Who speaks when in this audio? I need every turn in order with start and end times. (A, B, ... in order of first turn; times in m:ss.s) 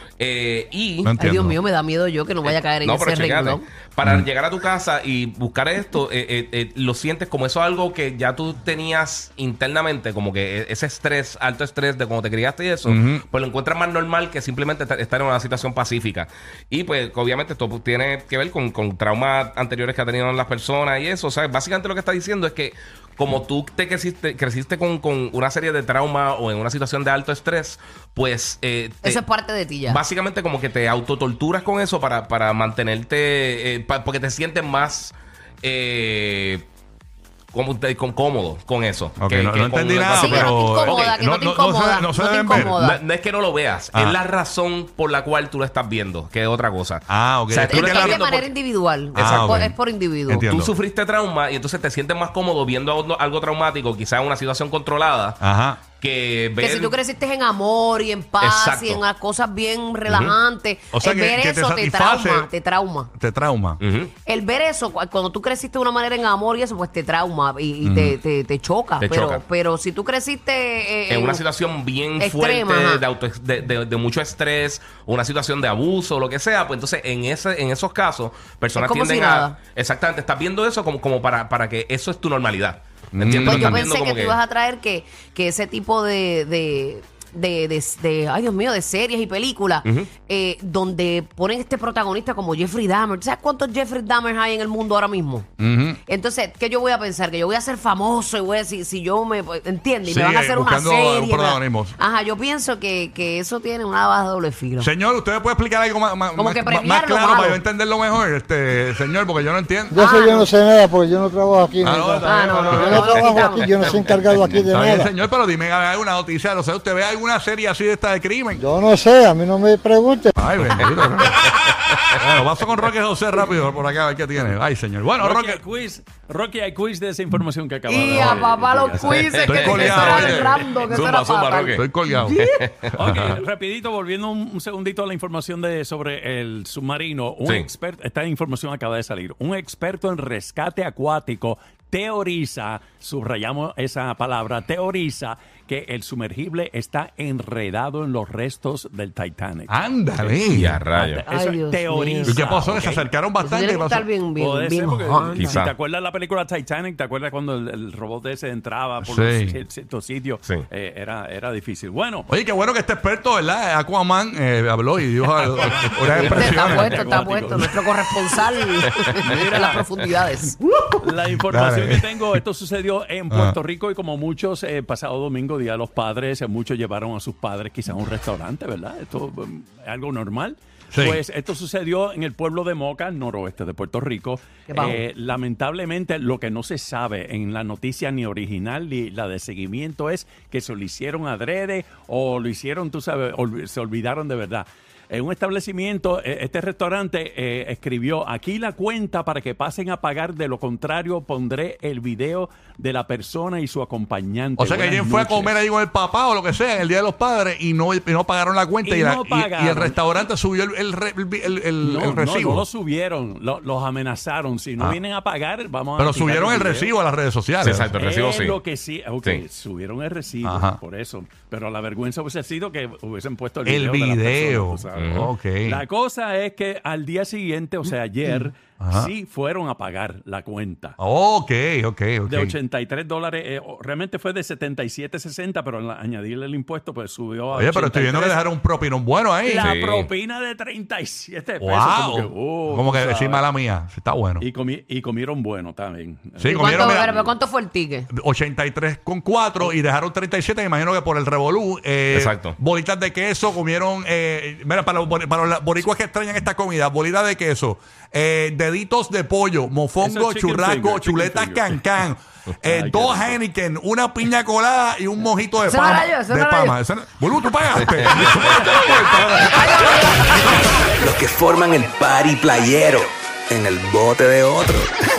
0:00.2-0:01.1 A
0:01.0-0:01.6 B
0:01.2-0:03.6 C
0:02.4-0:29.2 A
0:12.8-0:13.2 B
0:29.0-0:30.0 C
0:29.9-0:36.7 A
0:37.5-0:41.1 A
0:39.2-0:42.8 B
0:40.1-0:43.0 C
0:42.5-0:48.5 A
0:43.9-0:44.2 B
0:47.1-0:48.2 B
0:47.6-0:50.5 C
0:49.1-0:49.7 A
0:49.2-0:49.8 B
0:50.3-0:50.7 B
0:50.5-0:55.4 A
0:55.4-0:55.8 B
0:56.0-0:57.0 A
0:56.6-1:03.1 C
0:58.4-0:59.0 A
1:00.1-1:00.4 A
1:00.9-1:02.5 B
1:03.1-1:03.8 B
1:03.8-1:04.1 A
1:04.3-1:11.4 C
1:07.8-1:08.2 B
1:09.0-1:09.4 A
1:11.1-1:24.4 A
1:12.2-1:13.0 C
1:18.8-1:19.6 C
1:23.1-1:23.8 B
1:23.2-1:35.5 C
1:29.8-1:30.1 A
1:35.6-1:36.0 B
1:36.1-1:44.9 C
1:40.1-1:42.0 B
1:44.8-1:50.2 B
1:46.4-1:47.6 C
1:49.9-1:55.1 D
1:50.0-1:50.5 C
1:51.8-1:53.4 B
1:52.2-1:54.2 C
1:54.4-1:58.7 B
1:58.6-2:00.4 D
2:00.4-2:05.6 B
2:01.4-2:01.9 A
2:05.2-2:10.4 E
2:07.9-2:11.8 C
2:09.1-2:11.8 A
2:09.5-2:10.7 B
2:11.8-2:12.4 B
2:12.2-2:33.1 E
2:12.6-2:12.9 A
2:12.9-2:13.4 B
2:17.4-2:17.7 A
2:29.7-2:30.8 B
2:30.5-2:31.2 A
2:31.3-2:32.4 C
2:32.3-2:34.1 B
2:33.4-2:35.6 C
2:34.4-2:42.3 E
2:35.4-2:35.7 A
2:39.0-2:39.6 B
2:42.3-2:47.2 B
2:45.4-2:47.8 E
2:46.3-2:50.6 C
2:49.2-2:49.8 E
2:50.7-2:52.2 B
2:51.0-3:25.5 E
2:53.3-2:53.6 B
3:04.7-3:05.0 C
3:24.6-3:32.7 B
3:28.9-3:30.0 E
3:31.8-3:36.9 E
3:36.0-3:37.9 B
3:37.6-3:38.6 A
3:37.9-3:51.0 E
3:40.4-3:40.8 B
3:43.6-3:45.8 B
3:44.9-3:45.3 A
3:48.8-3:49.1 B
3:51.0-3:52.5 B
3:52.3-3:58.4 E
3:57.6-3:59.7 B
3:59.4-4:03.5 E
3:59.6-4:00.1 A
4:01.6-4:04.4 B
4:04.4-4:07.3 E
4:06.4-4:07.1 B
4:06.5-4:08.1 C
4:08.1-4:30.7 B
4:12.1-4:12.6 A
4:20.0-4:21.8 E
4:22.6-4:23.4 E
4:25.6-4:26.8 C
4:27.8-4:28.5 A
4:28.5-4:28.8 E
4:29.7-4:30.2 C
4:30.9-4:34.9 F